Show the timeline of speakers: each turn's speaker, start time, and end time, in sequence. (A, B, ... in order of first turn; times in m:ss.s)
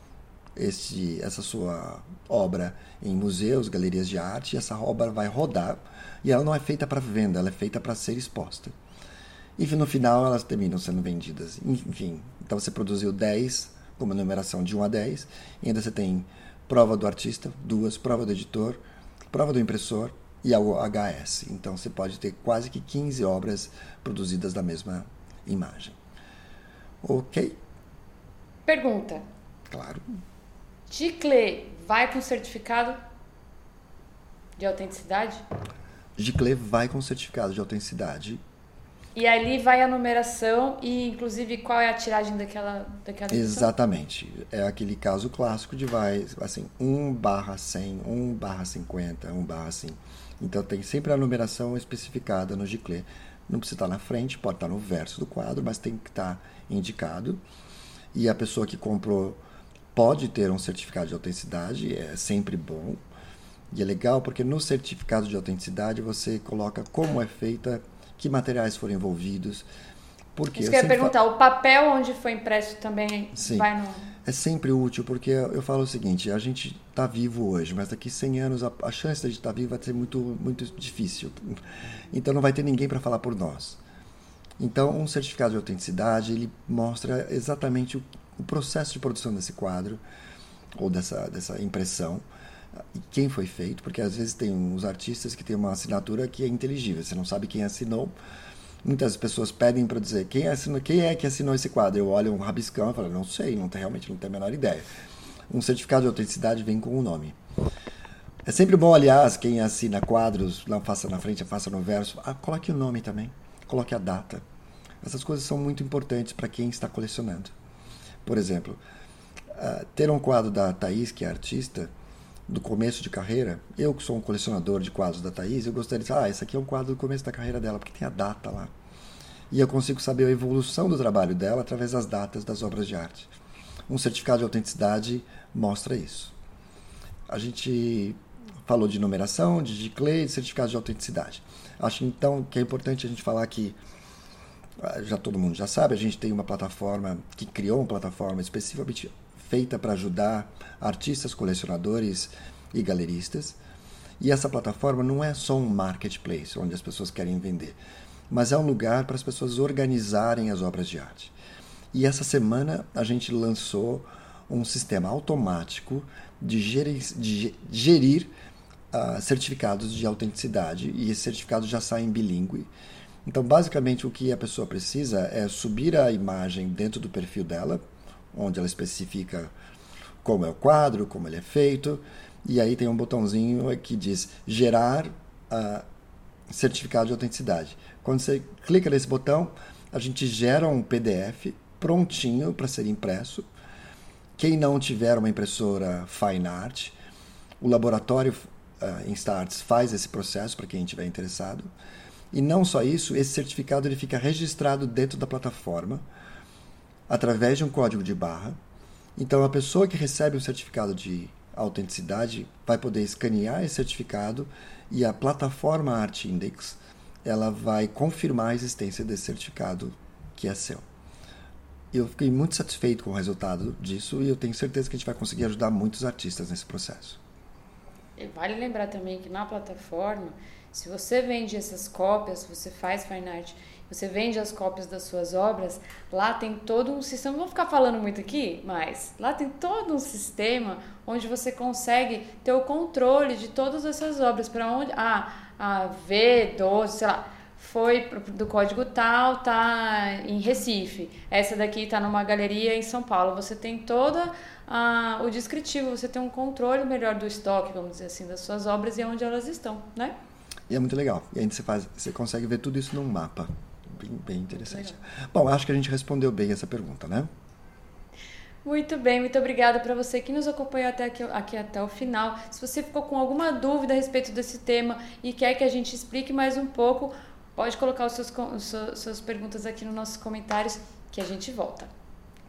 0:00.6-0:08.7 A
0:09.6-0:18.8 A
0:19.3-0:26.0 A
0:27.0-0:27.6 A
0:28.7-0:29.2 B
0:29.7-0:30.0 A
0:30.9-0:33.0 B
0:34.6-0:35.4 B
0:36.2-0:38.4 A
0:39.1-0:43.7 B
0:43.3-0:57.4 A
0:58.1-0:59.4 A
0:59.9-1:03.0 A
1:03.7-1:09.7 A
1:10.3-1:11.1 A
1:10.5-1:14.0 B
1:13.3-1:13.7 A
1:14.2-1:21.6 A
1:22.1-1:23.8 A
1:24.6-1:30.0 A
1:30.8-1:32.2 A
1:32.9-1:38.1 A
1:38.8-1:44.8 A
1:45.5-1:47.4 A
1:48.4-1:54.4 A
1:55.0-1:57.5 A
1:58.2-1:58.8 A
1:59.5-2:01.9 A
2:02.5-2:08.7 A
2:09.5-2:13.3 A
2:13.9-2:16.3 A
2:17.3-2:23.8 A
2:24.8-2:33.6 A
2:34.2-2:37.8 A
2:38.3-2:41.4 A
2:41.9-2:48.3 A
2:48.9-2:52.7 A
2:53.2-2:57.8 A
2:58.3-2:59.5 A
3:00.2-3:05.8 A
3:06.5-3:13.5 A
3:14.4-3:17.0 A
3:17.6-3:21.7 A
3:22.3-3:26.0 A
3:27.1-3:28.6 A
3:29.2-3:40.8 A
3:41.9-3:47.2 A
3:48.2-4:20.1 B
4:20.7-4:27.3 A
4:24.5-4:25.0 B
4:28.6-4:41.9 B